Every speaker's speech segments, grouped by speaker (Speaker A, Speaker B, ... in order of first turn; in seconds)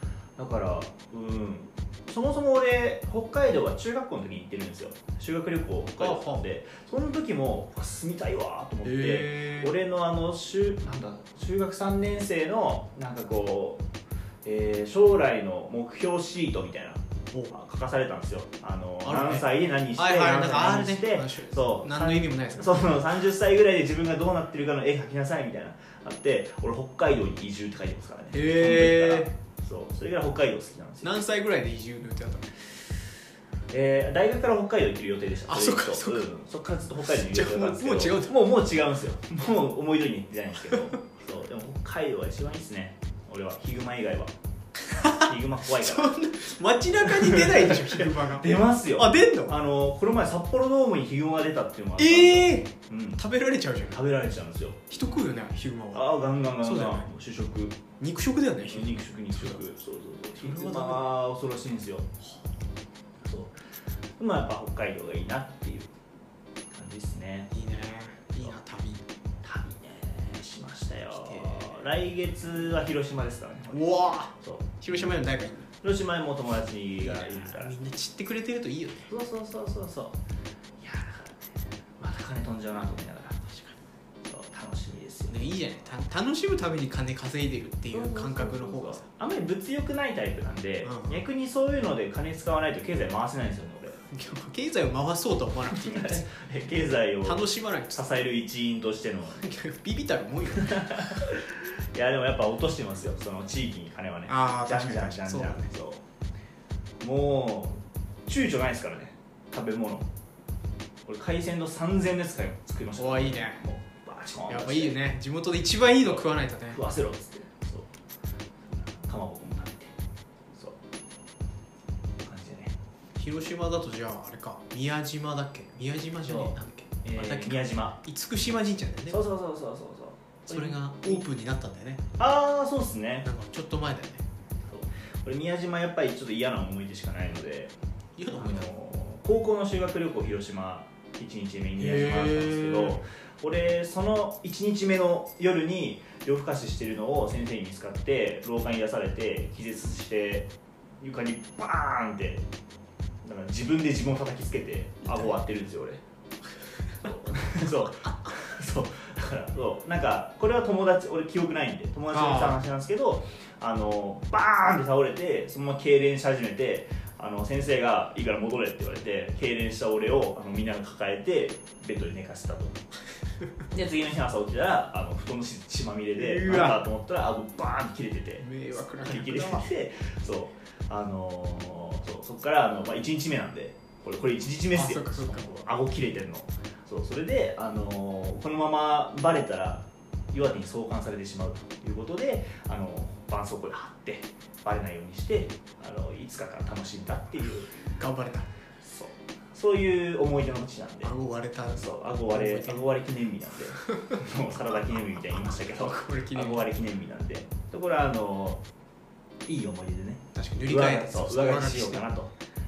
Speaker A: 0.4-13.8, 14.4-31.2, 33.7-44.3, 45.0-46.2, 47.0-53.2, 53.9-54.8, 55.9-57.8, 58.7-62.1, 63.2-63.6, 64.2-65.9, 66.7-67.5, 69.4-73.8, 74.4-75.2, 75.8-77.7, 79.1-80.2, 80.8-83.4, 84.3-85.6, 87.9-94.0, 95.7-99.4, 100.6-106.0, 107.0-110.1, 111.1-115.0, 116.0-117.9, 118.8-120.0, 122.2-122.8, 126.2-128.0, 129.1-131.2, 132.2-133.3, 134.7-137.8, 138.3-152.4, 153.2-156.0, 157.0-172.8, 173.7-178.5, 179.0-197.7, 198.8-201.1, 201.7-208.6, 209.5-212.3
Speaker B: 6.0-6.4, 8.8-9.7, 19.0-23.0, 28.3-29.3, 31.0-32.5, 35.5-36.3, 37.1-38.4, 44.9-49.5, 52.0-54.0, 54.9-57.1, 58.0-59.6, 60.4-61.1, 67.5-69.1, 71.3-71.7, 73.7-75.7, 77.0-79.1, 83.5-83.8, 85.3-89.0, 90.8-91.2, 94.1-96.3, 97.2-98.0, 99.4-101.3, 104.3-105.7, 113.0-113.6, 114.5-116.8, 123.2-129.2, 130.5-132.0, 133.2-134.2, 138.2-138.7, 141.8-143.0, 162.1-162.6, 176.2-176.8, 178.4-179.7, 184.7-185.6, 198.0-198.5, 201.0-202.9, 203.8-206.7, 210.3-212.1